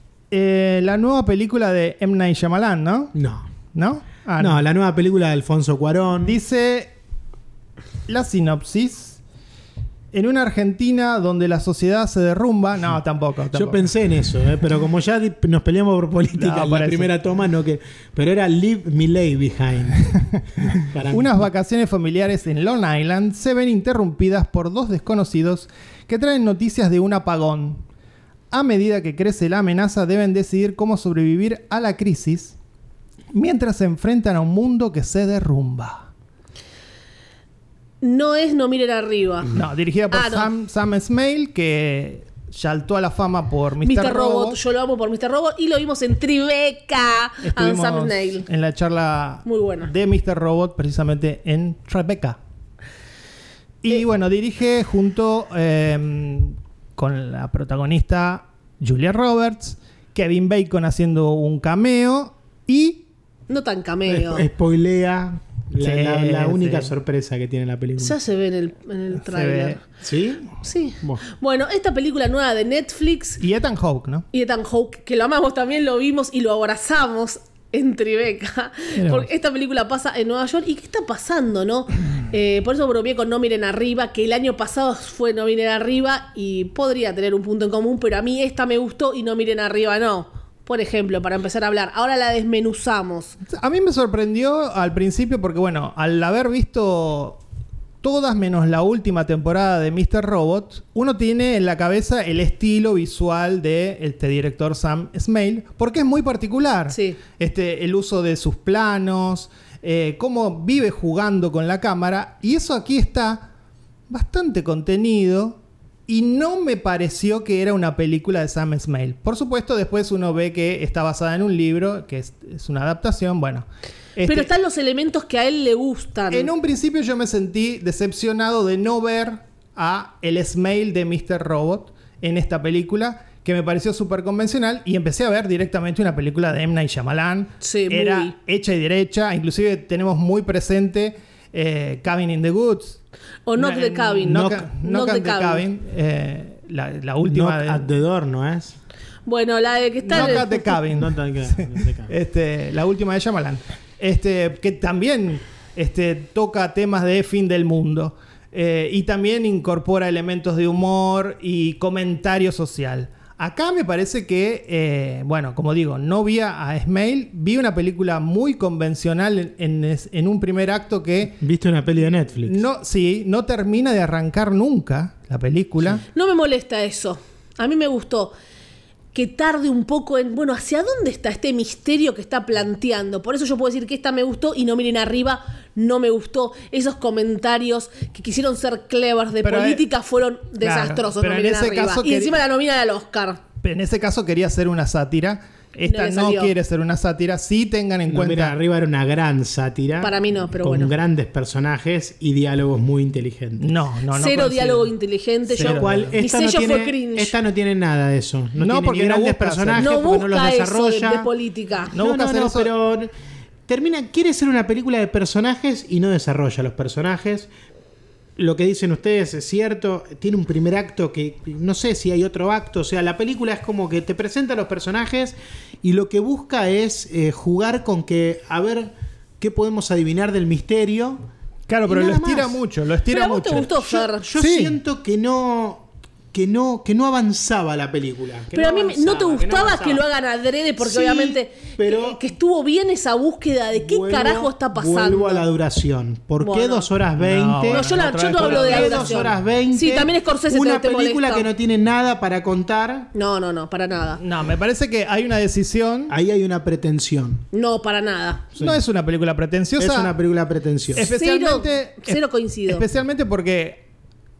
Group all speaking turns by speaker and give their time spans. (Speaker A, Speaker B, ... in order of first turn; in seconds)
Speaker A: 0.3-3.1, 3.7-4.6, 6.2-6.9, 8.1-9.2, 10.1-13.9, 16.4-17.1, 21.1-27.8, 28.5-32.5, 33.3-36.1, 39.5-44.6, 47.4-52.4, 53.8-63.0, 65.8-66.9, 69.2-69.8, 73.4-74.2, 79.0-79.3, 93.5-97.4, 98.0-113.5, 114.1-123.6, 124.2-124.5, 126.3-143.0, 143.6-147.9, 150.1-171.4, 172.4-176.0, 189.4-189.8, 190.6-192.4, 193.6-198.5, 203.6-204.9, 205.5-206.2, 208.6-209.9, 211.9-212.7, 231.7-234.8, 247.2-249.3, 254.2-256.1, 258.6-260.1, 260.9-263.8
Speaker B: 3.1-3.5, 4.4-6.4, 13.5-20.1, 20.7-21.4, 64.1-68.2, 70.0-70.5, 147.3-148.7, 150.1-152.1, 171.4-172.6, 198.1-203.7, 205.6-211.3, 211.9-213.1, 213.7-217.5, 218.4-231.2, 231.9-232.6, 233.9-240.0, 240.8-242.2, 243.7-253.1, 256.1-257.4, 259.8-261.1
Speaker C: 38.0-39.5, 40.1-40.5, 43.8-48.5, 49.4-49.9, 63.5-64.5, 68.0-69.8, 70.6-73.4, 74.3-93.3, 106.9-107.2, 124.2-126.5, 137.6-138.3, 143.5-145.6, 149.2-150.6, 176.1-178.3, 179.1-193.4, 195.8-196.5, 200.0-200.9, 204.1-207.3, 209.8-211.9, 233.1-234.2, 238.5-245.5, 246.4-246.9, 247.7-251.5, 253.1-254.2, 257.5-258.4, 261.1-262.8